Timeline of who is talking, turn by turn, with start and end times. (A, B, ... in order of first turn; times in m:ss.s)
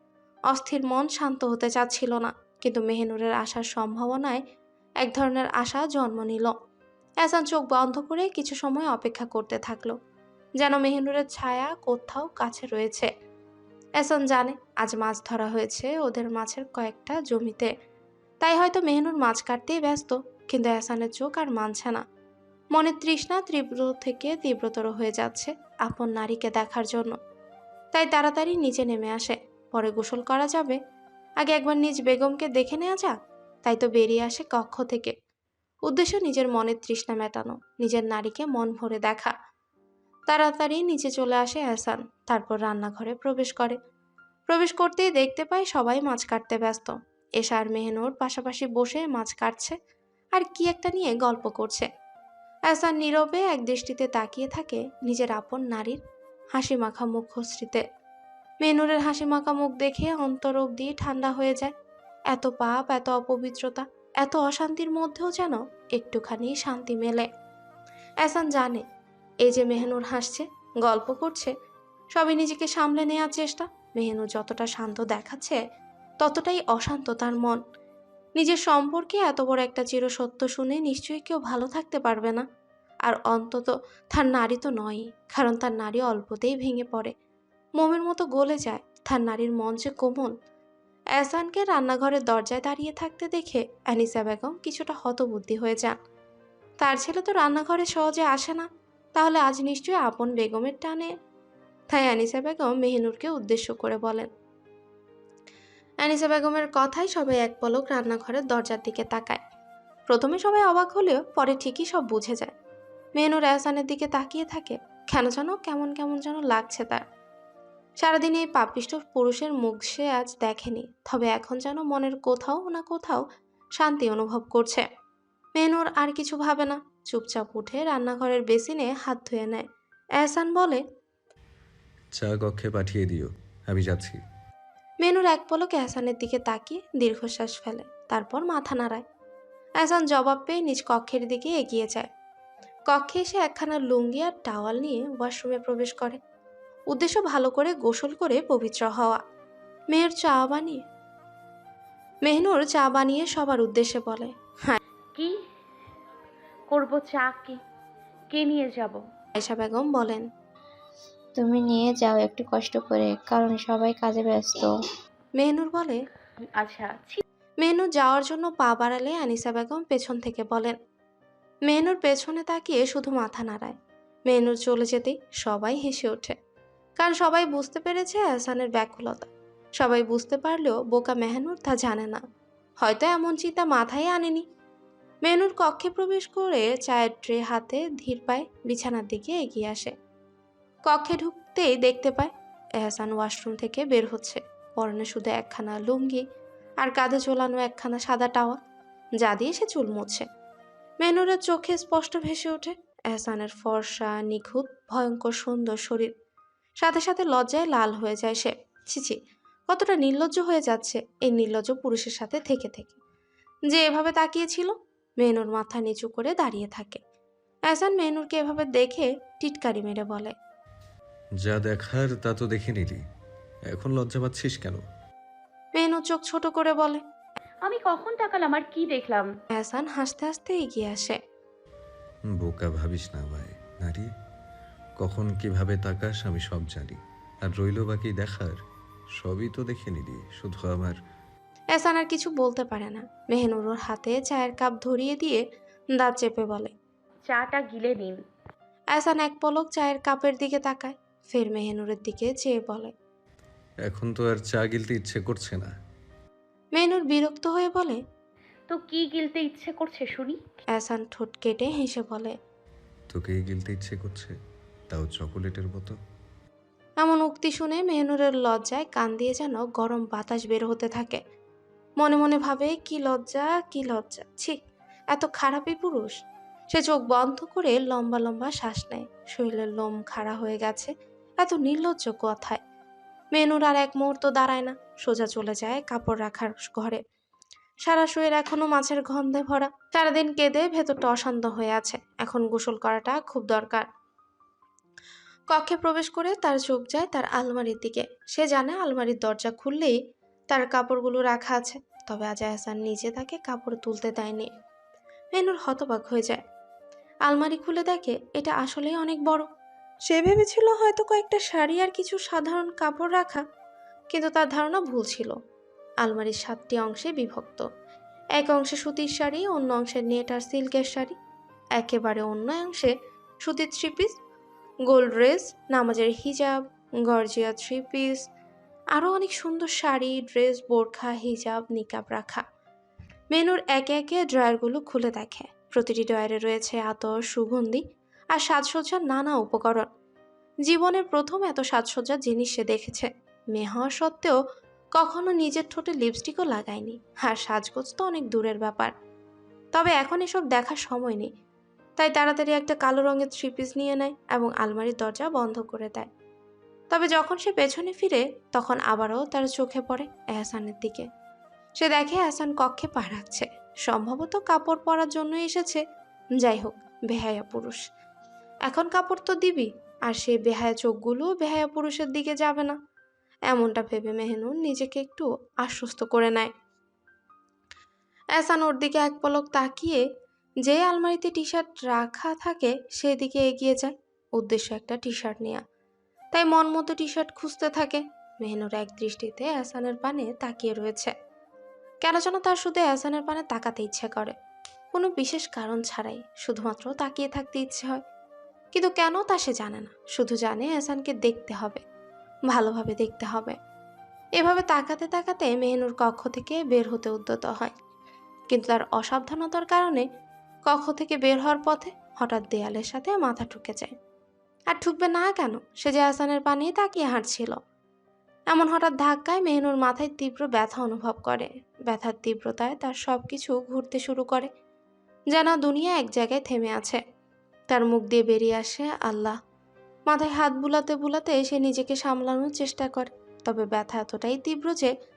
0:00.5-0:04.4 A
0:05.0-0:06.5 A
0:07.2-0:10.0 A
0:10.6-0:13.1 A
0:14.0-0:17.7 A
0:18.4-0:22.0 A
0:22.7-0:27.2 A
0:27.9-0:30.8 A
0:31.4-0:35.1 A
0:35.9-0:39.3 A
0:40.3-0:43.8 A
0:44.5-0:49.8 A
0:50.4-0:51.9 A
0:52.7-0:56.0 A
0:56.6-0:57.8 A
0:58.6-1:01.7 A
1:02.3-1:07.3 A
1:08.2-1:08.8 A
1:09.4-1:11.5 A
1:12.2-1:15.6 A
1:16.2-1:17.6 A
1:18.4-1:22.4 A
1:23.0-1:27.1 A
1:27.8-1:30.3 A
1:31.2-1:36.0 A
1:36.8-1:41.1 A
1:41.9-1:44.3 A
1:46.0-1:49.4 A
1:50.1-1:52.5 A
1:53.2-1:57.0 A
1:58.0-2:03.2 A
2:03.8-2:04.8 A
2:05.6-2:09.7 A
2:10.2-2:10.8 A
2:12.1-2:14.2 B
2:15.0-2:19.0 A
2:19.8-2:22.1 A
2:22.9-2:26.2 A
2:26.9-2:29.2 A
2:29.9-2:30.8 A
2:32.2-2:34.8 A
2:36.7-2:37.6 C
2:38.3-2:39.0 C
2:39.4-2:40.2 A
2:41.4-2:44.8 D
2:45.4-2:46.0 A
2:46.4-2:47.2 C
2:47.6-2:50.8 A
2:51.7-2:53.8 A
2:54.3-2:56.4 A
2:57.0-3:02.2 A
3:02.8-3:04.4 A
3:05.2-3:09.9 A
3:10.9-3:16.2 A
3:16.8-3:18.6 A
3:19.2-3:20.2 A
3:21.0-3:26.1 A
3:26.8-3:29.2 A
3:29.7-3:33.0 A
3:33.7-3:37.0 A
3:37.7-3:40.3 A
3:41.4-3:43.0 B
3:43.7-3:44.8 B
3:45.8-3:47.0 A
3:47.6-3:49.3 C
3:49.6-3:51.2 A
3:52.4-3:54.1 B
3:55.0-3:58.6 B
3:59.2-4:01.0 B
4:01.8-4:05.4 A
4:06.0-4:06.7 A
4:07.2-4:08.2 C
4:09.0-4:12.9 A
4:13.9-4:15.7 B
4:16.8-4:18.0 A
4:18.7-4:20.4 C
4:20.7-4:22.3 A
4:23.1-4:24.4 B
4:24.9-4:26.0 B
4:27.0-4:31.2 A
4:32.0-4:34.6 A
4:35.1-4:36.1 A
4:36.7-4:42.6 A
4:43.3-4:47.0 A
4:47.8-4:53.9 A
4:55.5-5:00.0 A
5:00.5-5:04.5 A
5:05.3-5:06.4 A
5:07.3-5:09.5 A
5:10.1-5:13.4 A
5:14.1-5:15.4 A
5:16.0-5:17.6 A
5:18.4-5:21.1 A
5:21.8-5:24.2 A
5:24.9-5:28.2 A
5:28.9-5:32.4 A
5:33.3-5:37.8 A
5:38.3-5:39.9 A
5:40.7-5:44.4 A
5:45.0-5:48.9 A
5:49.7-5:51.3 A
5:52.0-5:56.1 A
5:56.9-6:01.1 A
6:01.8-6:05.8 A
6:06.4-6:07.8 A
6:08.7-6:12.8 A
6:13.5-6:16.5 A
6:18.4-6:20.0 A
6:20.6-6:25.6 A
6:26.3-6:31.1 A
6:32.0-6:34.3 A
6:34.9-6:38.0 A
6:38.7-6:41.8 A
6:42.5-6:43.6 A
6:44.4-6:47.7 A
6:48.5-6:50.0 A
6:50.7-6:53.9 A
6:54.7-6:57.6 A
6:58.5-7:04.5 A
7:05.3-7:07.0 A
7:07.7-7:09.4 A
7:10.1-7:14.9 A